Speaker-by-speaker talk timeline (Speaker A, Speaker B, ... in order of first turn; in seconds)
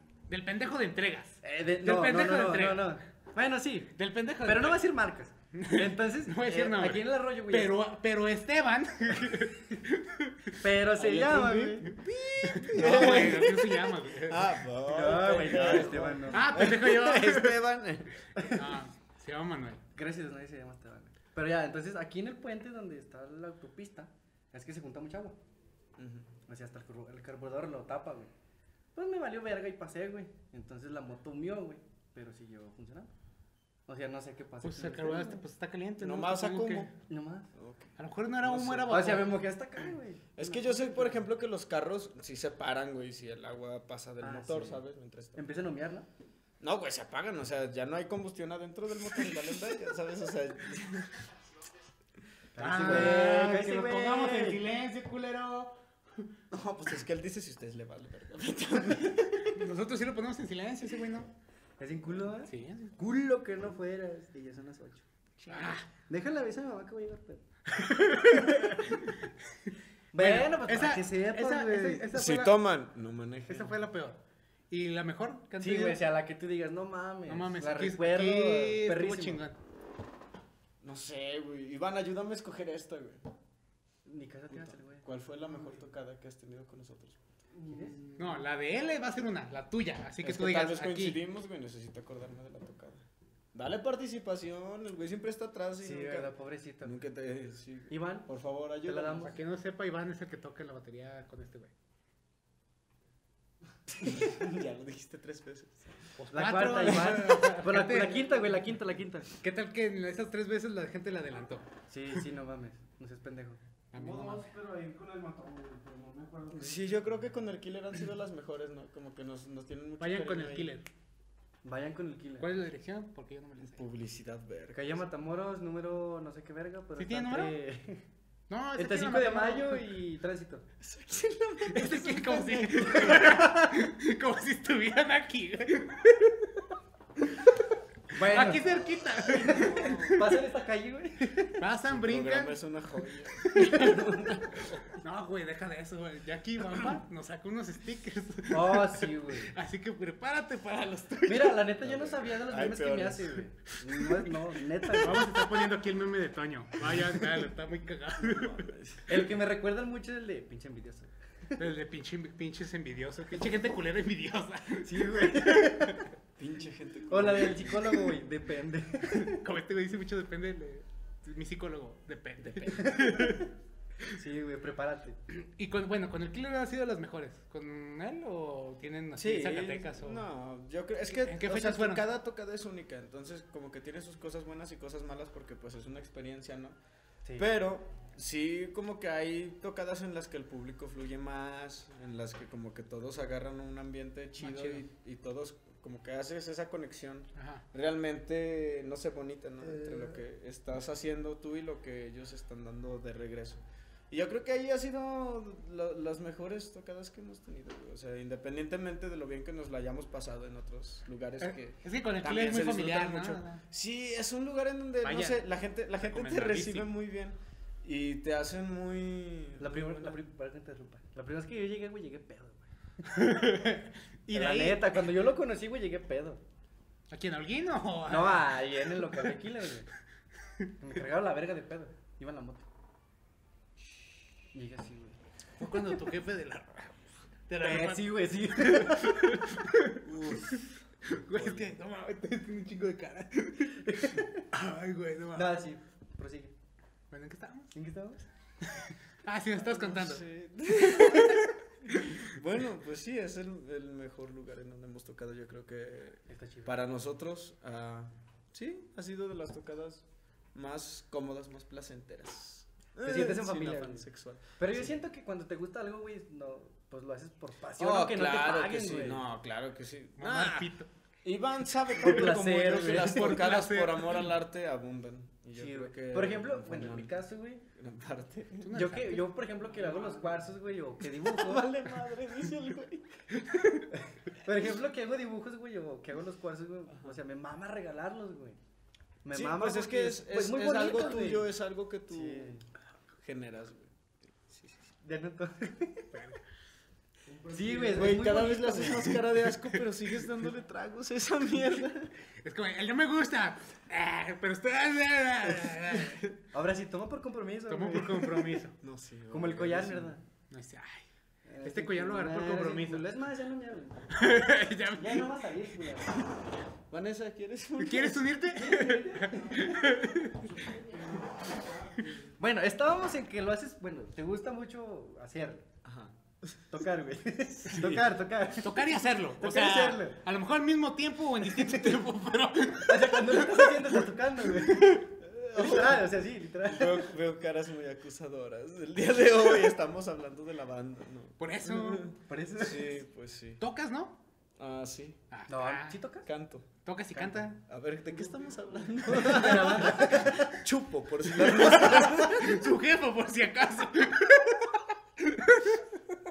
Speaker A: 0.3-3.0, 4.0-4.9, 5.5-10.6, 12.4-14.5, 16.3-17.6, 18.4-19.8, 34.6-36.9, 38.0-39.4, 52.6-56.3, 59.5-61.3, 62.5-62.9, 65.5-65.9, 67.8-69.1, 70.2-72.5, 73.5-74.2, 74.7-76.0, 77.3-79.5, 88.2-91.2, 99.2-101.7, 106.2-108.5, 109.4-111.7, 113.9-114.5, 120.0-120.8, 122.4-123.8, 127.0-127.6, 128.5-129.8, 131.7-136.5, 138.2-140.3, 141.6-142.5, 143.4-143.9, 144.9-151.7, 155.0-158.7, 161.6-165.8, 169.2-173.4, 175.3-180.2, 181.1-182.0, 194.4-194.8, 197.3-197.6, 211.4-213.6, 215.0-215.4, 216.0-216.9, 223.1-225.0, 227.1-228.6, 235.6-237.0, 237.5-245.6, 247.1-247.7, 248.7-250.2, 251.9-252.2, 270.2-270.9, 272.9-274.3, 278.6-279.4, 283.4-283.9, 296.1-296.4, 302.4-306.3, 307.7-308.7, 310.5-311.1, 311.6-313.1, 314.1-315.3, 317.8-320.6, 328.6-333.9, 341.4-342.1, 343.6-344.2, 345.3-346.0, 346.8-347.6, 351.4-355.8
Speaker B: 1.4-7.8, 10.6-11.9, 12.7-13.5, 14.8-16.6, 19.9-25.4, 26.5-28.3, 28.9-33.1, 33.9-35.4, 37.1-37.5, 38.9-41.2, 44.2-44.8, 45.3-46.1, 52.5-54.6, 61.8-65.0, 66.1-67.4, 68.1-68.9, 70.1-72.1, 75.6-79.4, 84.0-85.1, 87.5-88.0, 95.8-97.0, 97.9-98.3, 98.8-99.4, 106.3-109.3, 111.9-113.6, 121.6-122.5, 124.7-128.0, 128.8-130.7, 138.1-141.6, 143.7-144.4, 148.5-149.5, 151.2-155.4, 159.1-161.1, 164.8-166.0, 167.1-169.4, 172.8-173.4, 174.1-175.2, 219.6-222.7, 224.3-226.4, 228.1-229.9, 230.8-232.7, 234.5-235.2, 237.6-239.4, 243.8-244.4, 245.3-246.5, 247.7-248.2, 256.3-256.8, 263.0-269.2, 271.9-273.4, 275.5-277.6, 278.7-281.7, 283.9-288.6, 289.2-291.5, 292.1-292.6, 295.0-296.1, 297.5-299.2, 306.5-308.6, 309.3-310.2, 311.5-314.2, 314.9-316.2, 318.5-319.8, 322.4-325.6, 326.7-328.8, 329.4-330.2, 331.5-331.9, 332.8-335.0, 335.5-337.1, 342.3-342.9, 345.5-346.3, 347.1-347.5, 349.1-350.6, 351.6-352.2
Speaker C: 10.9-18.2, 26.0-26.3, 36.0-36.9, 37.5-39.0, 40.3-45.5, 46.6-51.2, 56.5-59.6, 65.4-65.8, 72.1-73.8, 80.8-83.3, 84.5-87.2, 90.2-99.3, 104.0-105.8, 116.5-120.7, 123.6-125.0, 130.8-133.4, 139.4-140.3, 141.9-144.9, 151.8-153.4, 156.9-157.2, 158.2-159.2, 166.4-167.9, 179.2-186.8, 187.4-220.2, 240.0-240.7, 241.3-241.7, 249.6-264.9, 267.8-270.7, 271.2-277.1, 277.7-278.8, 281.2-283.2, 289.3-292.5, 293.2-293.9, 294.5-294.7, 297.9-302.1, 305.4-306.2, 308.8-310.1, 316.9-318.3, 325.8-326.5, 334.7-336.0, 336.6-343.6, 344.6-345.2, 346.2-346.7, 347.6-352.6
Speaker D: 113.9-117.2, 297.3-298.4, 348.1-349.0